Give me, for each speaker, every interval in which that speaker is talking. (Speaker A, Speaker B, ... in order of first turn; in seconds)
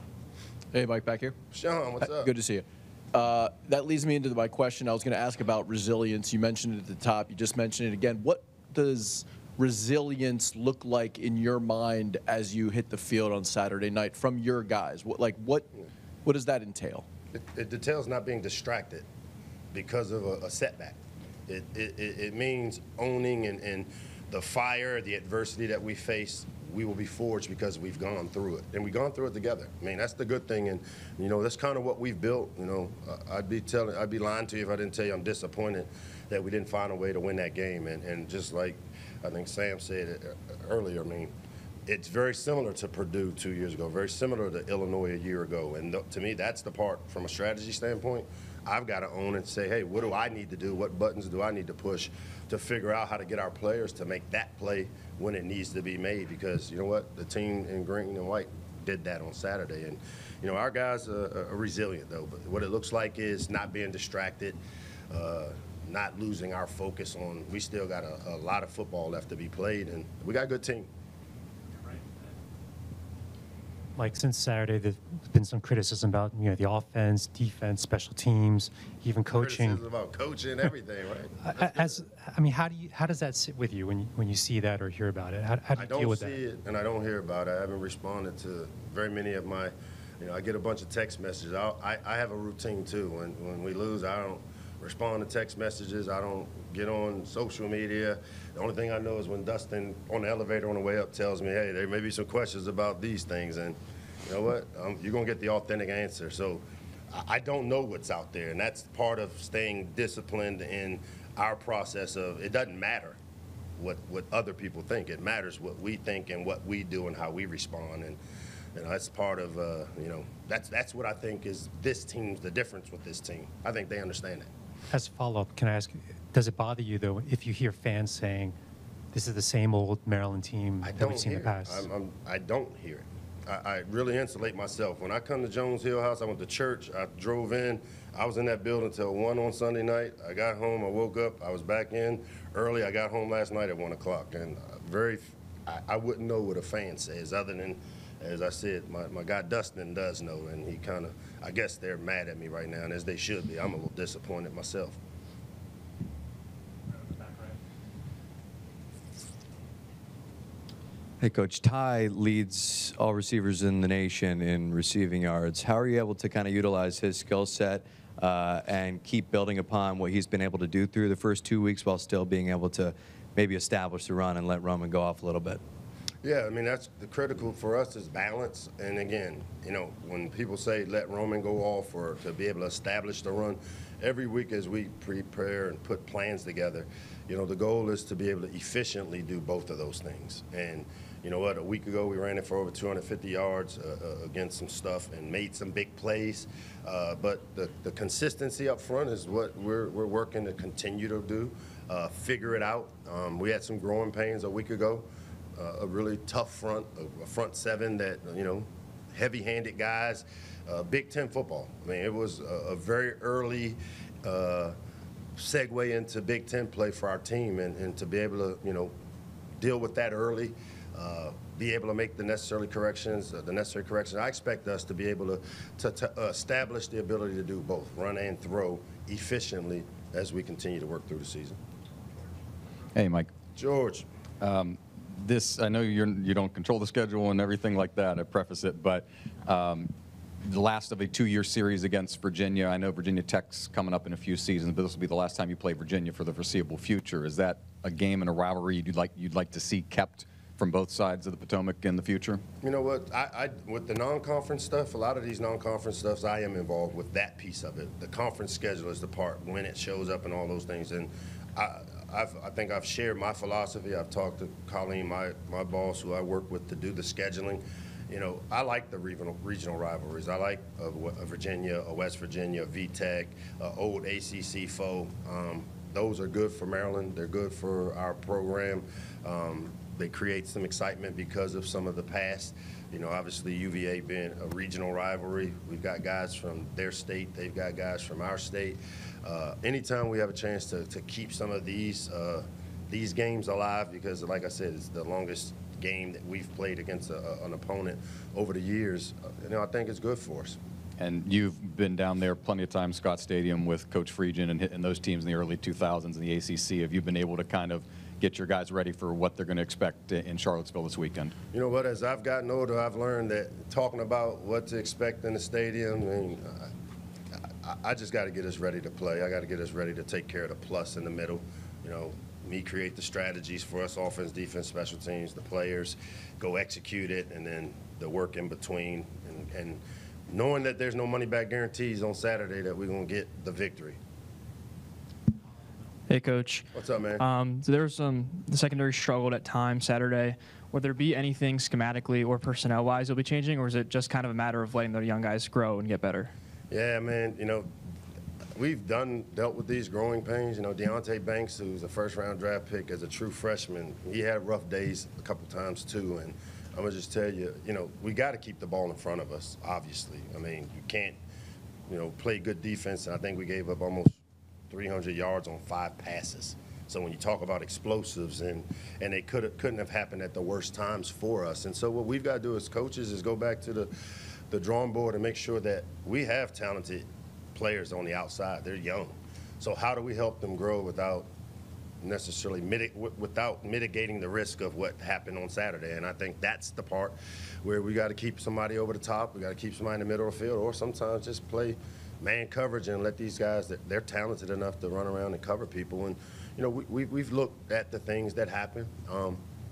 Speaker A: 0.7-1.4, 2.0-15.7, 16.2-17.1
Speaker B: 1.5-2.3, 17.3-19.1, 19.7-21.0, 21.5-41.3, 41.9-64.6, 65.1-70.9, 79.3-82.0, 85.8-113.2, 113.8-118.2, 118.8-124.5, 130.8-155.0, 176.2-205.1, 205.6-214.8, 215.4-218.9, 219.6-231.6, 233.6-234.1, 252.6-300.6, 311.5-316.7, 317.6-334.0, 336.7-337.2, 346.7-347.7, 348.6-361.1, 361.9-364.2, 364.7-373.9, 374.5-381.3, 382.0-399.4
Speaker C: 74.0-79.8, 81.4-86.4, 124.9-128.6, 129.1-131.9
Speaker D: 161.2-175.6
Speaker E: 232.9-233.3, 234.4-239.9, 240.4-252.4, 301.0-311.3
Speaker F: 336.1-346.3